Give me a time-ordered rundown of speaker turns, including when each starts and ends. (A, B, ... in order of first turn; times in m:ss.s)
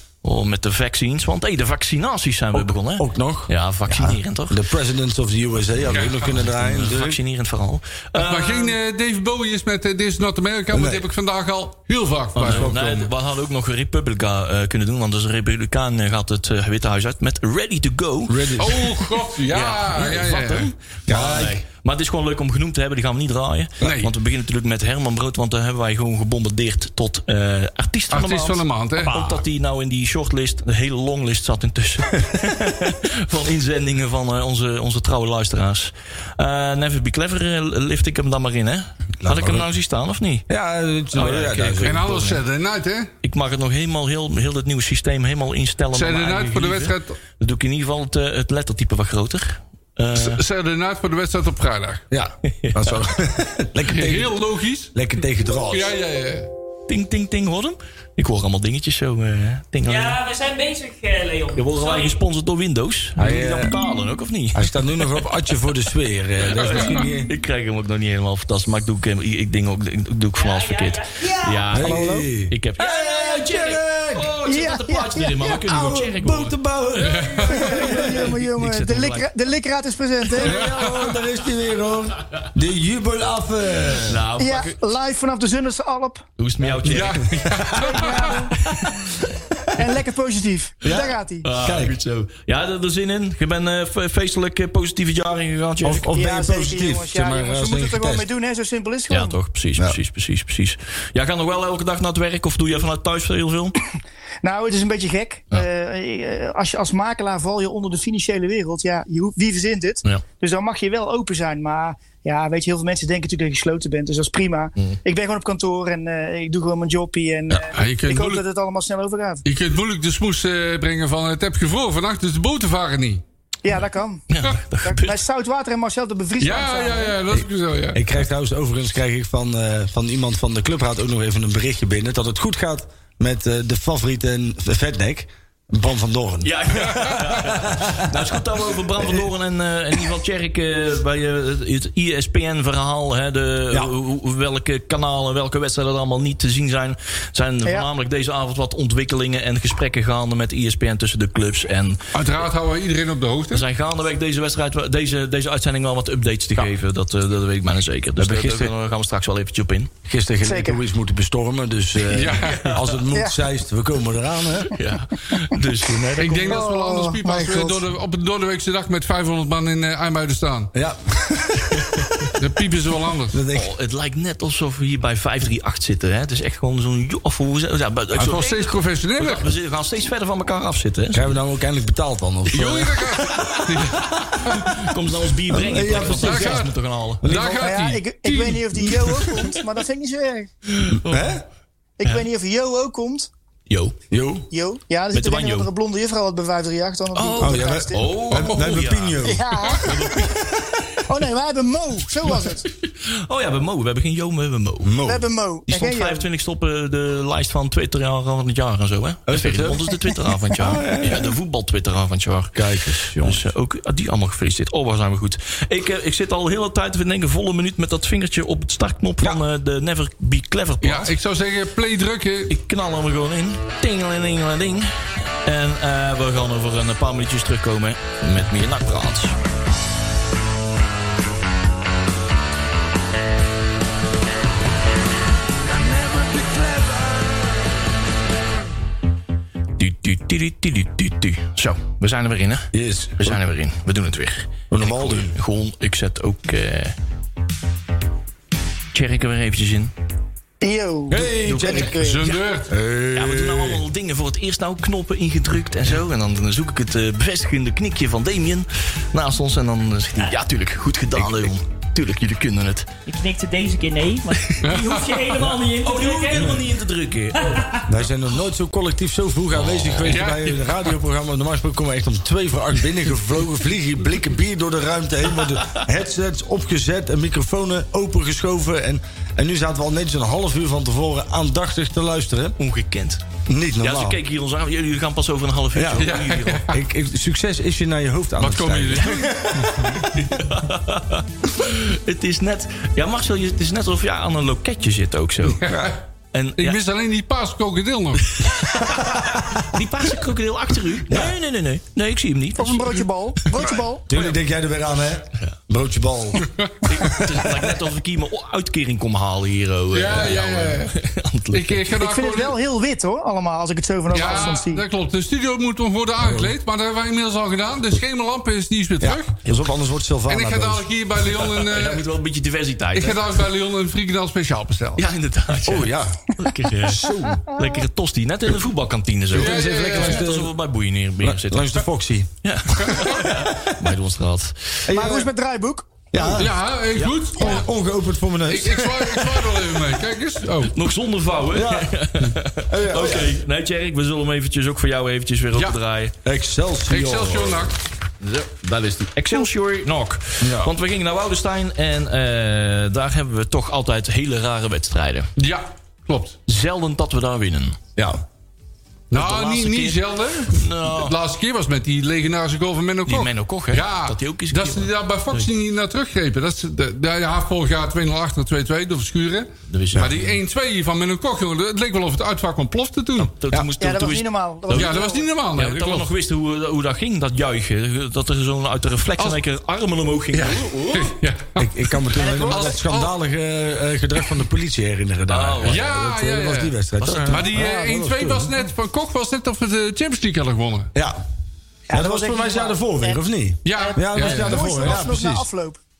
0:00.2-0:04.6 A
0:02.5-0:07.2 B
0:05.9-0:06.2 C
0:06.2-0:08.8 A
0:08.2-0:13.1 C
0:10.7-0:11.1 B
0:12.4-0:18.8 A
0:12.4-0:12.8 B
0:18.3-0:18.9 B
0:18.6-0:20.7 C
0:19.5-0:40.5 A
0:21.1-0:21.6 B
0:23.8-0:24.1 C
0:28.1-0:29.4 C
0:39.2-0:39.7 B
0:40.5-0:42.0 B
0:41.1-0:42.4 A
0:41.8-0:43.1 C
0:43.2-0:50.4 A
0:45.9-0:47.2 C
0:50.2-0:52.0 C
0:52.1-0:54.4 B
0:52.4-0:53.0 A
0:53.9-0:54.9 C
0:54.9-0:55.9 B
0:55.7-0:56.5 C
0:56.9-1:00.2 A
0:59.8-1:02.2 D
1:01.5-1:05.6 A
1:03.2-1:03.8 B
1:03.7-1:04.2 D
1:04.6-1:07.3 B
1:06.4-1:16.6 A
1:06.6-1:07.1 C
1:10.4-1:11.8 D
1:11.7-1:14.3 B
1:11.9-1:12.1 E
1:14.4-1:15.6 E
1:15.4-1:18.3 B
1:17.0-1:17.8 C
1:17.5-1:20.6 E
1:17.5-1:19.3 A
1:20.4-1:24.2 B
1:20.4-1:21.2 C
1:24.0-1:24.8 A
1:24.4-1:26.2 E
1:26.4-1:27.4 A
1:26.6-1:27.9 B
1:26.8-1:28.5 C
1:27.8-1:28.6 E
1:28.5-1:29.3 A
1:29.7-1:31.5 E
1:30.8-1:32.0 B
1:31.4-1:36.1 A
1:35.8-1:38.3 B
1:35.9-1:39.4 E
1:39.1-1:43.8 A
1:44.4-1:59.4 E
1:57.7-1:58.4 C
1:59.4-2:03.2 C
2:03.6-2:04.2 E
2:04.3-2:05.2 A
2:04.8-2:07.2 E
2:06.4-2:08.0 C
2:07.3-2:18.4 B
2:16.4-2:32.0 A
2:19.0-2:19.3 B
2:32.1-2:33.6 C
2:33.5-2:39.9 A
2:38.2-2:38.7 B
2:40.0-2:44.7 B
2:40.4-2:40.8 E
2:42.1-2:42.8 C
2:42.2-2:43.0 A
2:43.1-2:43.4 E
2:44.7-2:46.5 A
2:46.2-2:50.7 C
2:46.3-2:47.8 E
2:50.7-2:51.8 B
2:51.8-2:52.3 A
2:52.4-2:53.4 C
2:53.3-2:53.7 B
2:53.5-3:01.4 A
2:58.1-2:59.5 C
3:01.1-3:03.5 B
3:02.5-3:04.8 C
3:02.5-3:07.3 A
3:05.5-3:06.7 B
3:05.9-3:09.2 C
3:07.2-3:07.8 B
3:07.6-3:10.5 E
3:10.7-3:11.4 A
3:10.9-3:11.4 B
3:12.0-3:13.3 E
3:13.7-3:14.0 A
3:14.1-3:14.5 B
3:14.5-3:18.2 E
3:15.1-3:15.7 A
3:17.1-3:20.5 A
3:17.4-3:20.7 B
3:18.3-3:18.8 C
3:19.2-3:20.2 E
3:21.0-3:22.7 E
3:22.7-3:24.9 A
3:24.8-3:25.3 B
3:25.0-3:26.2 E
3:25.7-3:41.1 A
3:29.3-3:31.4 B
3:32.6-3:33.4 B
3:40.8-3:42.6 C
3:42.5-3:49.4 A
3:55.7-3:57.5 B
3:59.8-4:07.0 A
4:02.7-4:03.4 B
4:04.7-4:05.3 B
4:08.9-4:09.9 A
4:10.6-4:12.4 E
4:11.1-4:12.0 B
4:11.4-4:12.4 A
4:11.9-4:12.7 C
4:12.7-4:13.8 B
4:13.1-4:22.9 A
4:21.2-4:21.5 B
4:23.1-4:26.6 D
4:24.5-4:27.7 A
4:24.6-4:25.3 C
4:26.4-4:26.7 B
4:27.3-4:27.9 D
4:27.8-4:42.6 B
4:29.5-4:30.2 A
4:30.0-4:30.8 C
4:42.6-4:43.2 A
4:43.5-4:44.2 B
4:43.8-4:46.7 A
4:45.7-4:46.1 B
4:46.0-4:46.8 C
4:46.6-4:50.2 B
4:48.4-4:50.1 C
4:49.0-4:49.3 A
4:50.1-4:55.7 A
4:55.6-4:56.0 C
4:55.6-4:56.0 B
4:56.3-4:56.8 A
4:56.6-4:58.4 C
4:58.5-5:03.1 A
4:58.9-4:59.6 B
5:01.1-5:01.4 B
5:02.6-5:04.1 E
5:04.1-5:06.5 B
5:06.8-5:11.9 A
5:07.0-5:07.7 B
5:09.9-5:11.0 C
5:11.5-5:12.6 C
5:12.0-5:14.8 E
5:14.1-5:19.3 C
5:16.2-5:16.6 B
5:19.0-5:20.9 B
5:20.3-5:22.1 C
5:21.2-5:23.3 A
5:22.9-5:25.0 C
5:25.0-5:31.9 A
5:25.6-5:26.2 B
5:26.8-5:27.5 B
5:29.3-5:30.5 B
5:29.3-5:30.3 C
5:31.2-5:32.3 B
5:32.4-5:34.9 A
5:32.8-5:33.2 C
5:32.9-5:33.6 B
5:34.8-5:35.3 B
5:34.9-5:35.9 E
5:36.1-5:36.5 B
5:36.4-5:37.7 C
5:36.9-5:37.3 A
5:37.3-5:39.8 B
5:38.5-5:40.8 C
5:40.7-5:46.1 A
5:41.5-5:41.9 B
5:42.7-5:43.4 B
5:46.2-5:47.7 B
5:46.9-5:47.8 C
5:48.2-5:55.3 A
5:50.4-5:50.7 B
5:55.4-5:56.4 C
5:56.5-5:57.8 A
5:59.1-6:13.3 C
5:59.1-6:01.2 A
6:03.1-6:05.5 A
6:09.7-6:10.4 A
6:13.2-6:15.0 A
6:13.8-6:15.3 E
6:14.7-6:16.1 C
6:15.6-6:21.2 A
6:20.3-6:23.1 C
6:21.6-6:28.6 B
6:22.2-6:22.8 E
6:25.3-6:25.9 A
6:25.6-6:26.8 C
6:27.0-6:27.5 A
6:27.3-6:30.9 C
6:31.0-6:31.2 B
6:31.9-6:33.2 E
6:31.9-6:35.5 B
6:33.6-6:34.8 C
6:33.7-6:35.8 E